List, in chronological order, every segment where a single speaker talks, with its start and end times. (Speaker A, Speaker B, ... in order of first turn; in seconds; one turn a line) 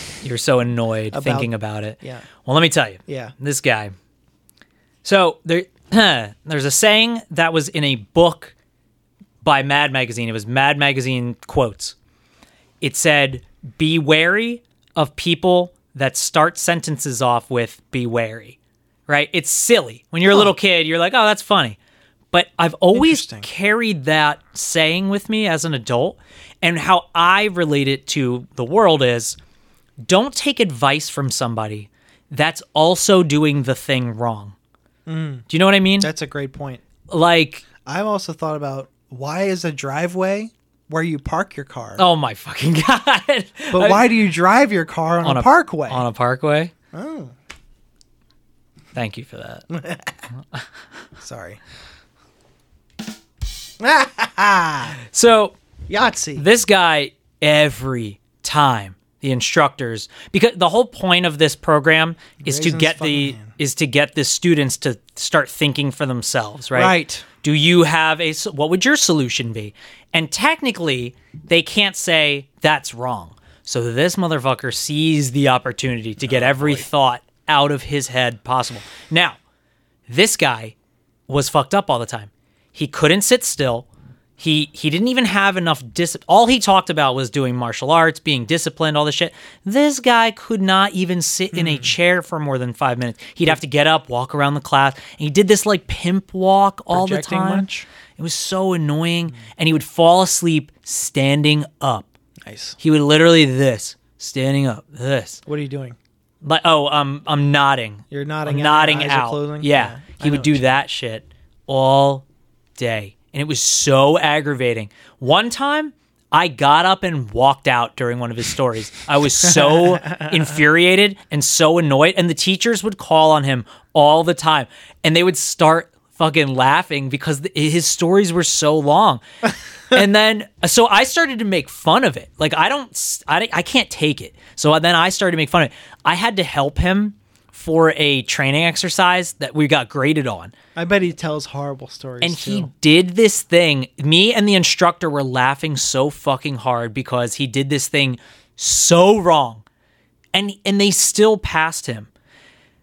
Speaker A: 0.2-3.9
Speaker B: 1.1-2.3
Speaker B: 3.1-3.4
Speaker A: 5.0-8.5
Speaker A: 9.4-11.9
Speaker A: 12.8-21.8
Speaker B: 20.2-20.5
Speaker A: 22.3-29.4
Speaker B: 22.9-23.5
Speaker A: 30.0-34.5
Speaker B: 35.1-35.5
Speaker A: 35.5-36.1
Speaker B: 36.0-36.8
Speaker A: 37.1-37.6
Speaker B: 37.9-42.0
Speaker A: 42.0-44.1
Speaker B: 43.7-46.1
Speaker A: 45.2-46.7
Speaker B: 46.9-47.3
Speaker A: 49.0-49.7
Speaker B: 49.7-50.2
Speaker B: 51.2-51.6
Speaker B: 53.8-55.0
Speaker A: 55.1-55.6
Speaker B: 55.9-56.5
Speaker A: 56.4-79.4
Speaker B: 62.4-63.5
Speaker B: 66.7-67.3
Speaker B: 76.2-76.9
Speaker A: 80.1-80.8
Speaker A: 81.3-83.9
Speaker A: 84.4-102.1
Speaker B: 91.5-91.9
Speaker B: 96.9-97.9
Speaker B: 102.4-102.8
Speaker A: 102.8-105.4
Speaker B: 105.5-106.0
Speaker A: 106.4-112.3
Speaker B: 108.1-110.8
Speaker A: 112.8-129.2
Speaker B: 119.6-120.3
Speaker A: 129.9-140.5
Speaker B: 140.8-142.7
Speaker A: 142.2-149.6
Speaker A: 150.3-152.1